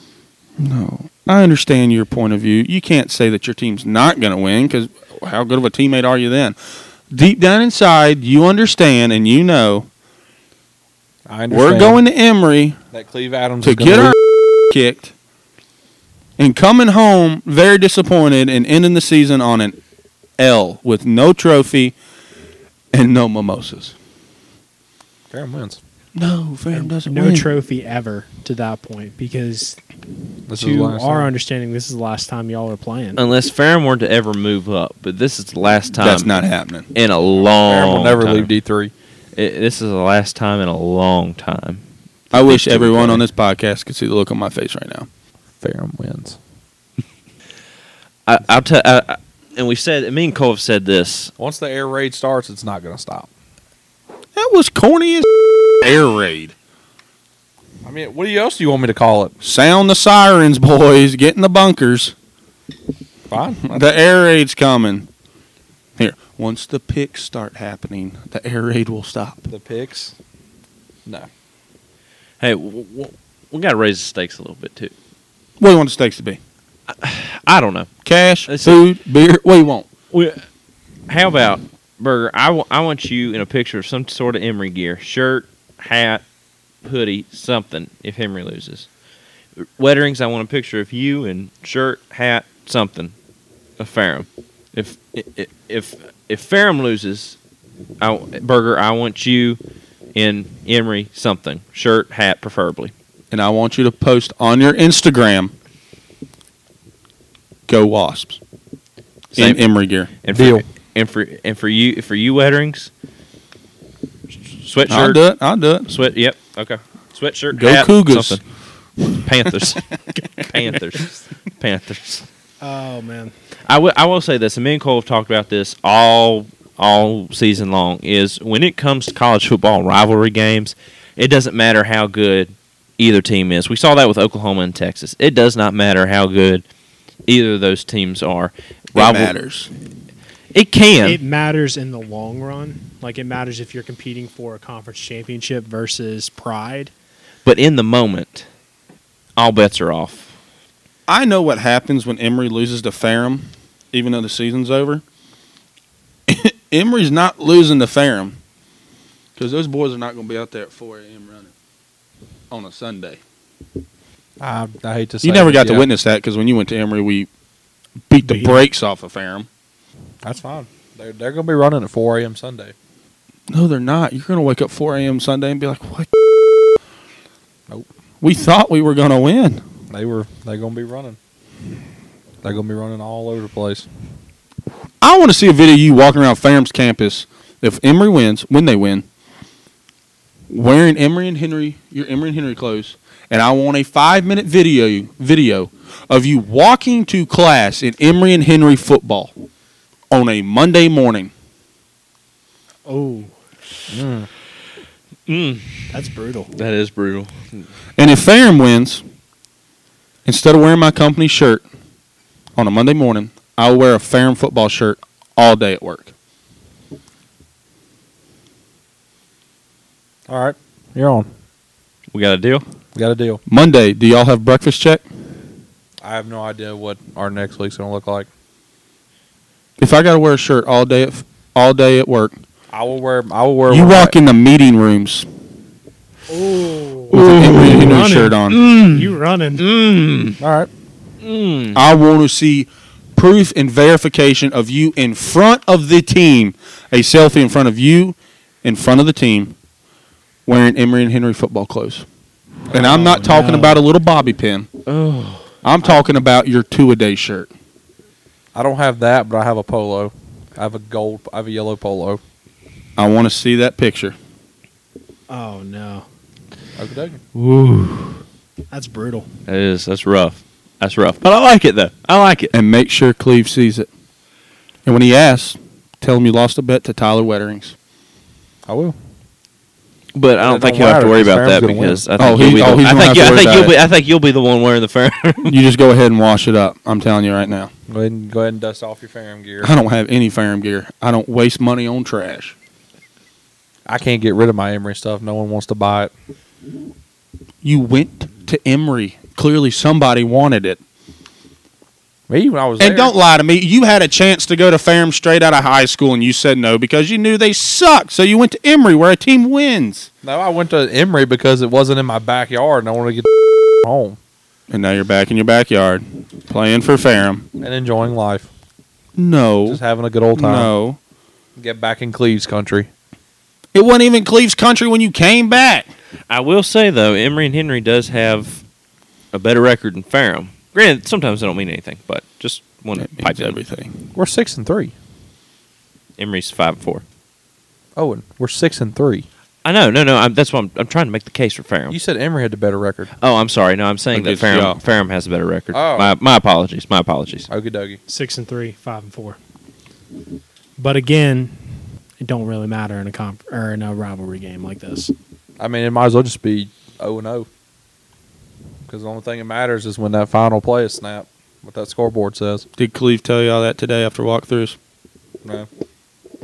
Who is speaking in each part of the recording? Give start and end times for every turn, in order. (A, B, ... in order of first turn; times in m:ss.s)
0:00.6-0:06.6 A
0:07.1-0:09.9 A
0:11.3-0:12.0 B
0:11.5-0:12.8 A
0:12.9-0:14.2 B
0:13.6-0:15.1 A
0:16.4-0:19.8 A
0:20.4-0:22.0 A
0:22.9-0:24.0 A
0:25.3-0:25.8 B
0:26.2-0:27.5 A
0:26.7-0:29.8 C
0:30.5-0:31.3 B
0:30.6-0:33.2 C
0:33.2-0:38.5 D
0:36.0-0:36.9 A
0:37.6-0:38.9 B
0:39.4-0:41.8 D
0:42.3-0:45.1 A
0:42.4-0:43.2 D
0:45.6-0:46.4 B
0:48.3-0:51.3 D
0:51.4-0:53.3 B
0:54.4-0:56.5 A
0:57.8-0:59.3 B
0:59.4-1:02.2 A
1:03.3-1:03.8 B
1:03.6-1:05.1 A
1:06.0-1:09.5 A
1:09.5-1:10.2 B
1:12.4-1:14.9 D
1:15.6-1:16.4 A
1:16.9-1:17.9 D
1:18.0-1:19.9 A
1:18.5-1:18.8 D
1:20.1-1:20.4 D
1:21.1-1:26.2 D
1:26.8-1:28.9 D
1:29.6-1:33.1 D
1:33.8-1:37.4 D
1:38.0-1:39.6 D
1:40.2-1:42.9 D
1:43.3-1:45.5 A
1:47.7-1:48.4 A
1:49.4-1:49.6 D
1:49.4-1:50.1 A
1:50.2-1:52.9 D
1:50.3-1:50.6 B
1:54.5-1:55.2 D
1:54.9-1:55.9 A
1:55.9-1:58.4 D
1:57.5-1:58.4 A
1:59.2-1:59.8 D
2:00.4-2:02.3 D
2:02.6-2:03.3 C
2:03.7-2:16.6 D
2:17.3-2:19.4 D
2:19.0-2:19.7 A
2:20.5-2:21.2 D
2:21.0-2:26.9 C
2:27.4-2:28.5 D
2:29.4-2:30.3 D
2:31.1-2:35.0 A
2:36.3-2:38.4 A
2:39.4-2:41.5 A
2:42.5-2:43.2 A
2:44.4-2:45.9 B
2:45.2-2:47.3 A
2:48.1-2:49.5 A
2:48.2-2:48.6 C
2:50.2-2:52.7 B
2:53.5-2:56.1 A
2:58.2-2:59.6 A
2:59.9-3:01.2 B
3:02.4-3:03.9 B
3:05.0-3:09.1 A
3:10.5-3:19.3 A
3:20.1-3:21.3 A
3:22.9-3:23.4 C
3:23.9-3:24.3 B
3:25.3-3:25.8 D
3:25.9-3:26.5 C
3:26.5-3:27.6 D
3:28.0-3:29.0 A
3:30.2-3:31.6 A
3:32.6-3:36.1 A
3:40.3-3:41.3 B
3:42.1-3:42.6 D
3:43.0-3:43.4 B
3:43.5-3:45.0 A
3:46.0-3:48.3 B
3:49.8-3:52.4 A
3:52.7-3:54.2 B
3:53.7-3:55.3 A
3:56.3-3:59.6 C
3:57.1-3:58.6 A
3:57.1-3:57.9 D
3:58.5-4:00.4 D
4:00.4-4:00.7 B
4:01.2-4:01.8 D
4:01.8-4:09.6 A
4:10.5-4:12.0 A
4:12.7-4:13.8 B
4:12.7-4:14.7 A
4:13.4-4:13.7 C
4:14.9-4:15.5 D
4:15.6-4:17.5 A
4:18.5-4:22.2 B
4:23.0-4:24.2 A
4:25.3-4:26.1 C
4:26.8-4:27.2 B
4:27.4-4:28.2 D
4:28.7-4:29.3 C
4:29.5-4:32.5 D
4:32.5-4:33.9 A
4:34.9-4:37.8 A
4:38.7-4:39.0 B
4:40.1-4:45.5 D
4:40.4-4:42.1 B
4:42.2-4:43.8 A
4:45.4-4:47.7 A
4:47.9-4:49.7 B
4:49.6-4:52.6 A
4:53.9-4:56.1 B
4:57.6-5:00.8 A
5:02.3-5:03.1 B
5:02.8-5:10.1 A
5:10.2-5:14.2 B
5:14.7-5:17.5 A
5:17.6-5:18.5 B
5:19.2-5:19.8 A
5:19.7-5:20.7 B
5:20.4-5:21.0 A
5:21.6-5:22.9 B
5:23.7-5:25.9 A
5:26.3-5:28.6 D
5:29.3-5:33.6 D
5:33.0-5:34.0 A
5:34.1-5:34.9 B
5:36.2-5:37.0 D
5:38.0-5:39.3 B
5:39.6-5:42.0 D
5:41.9-5:43.1 B
5:43.2-5:47.5 D
5:44.1-5:44.8 A
5:45.7-5:46.2 B
5:47.5-5:48.0 B
5:48.1-5:49.4 C
5:50.8-5:55.1 C
5:55.6-5:57.5 B
5:58.8-6:02.7 B
6:02.8-6:04.8 A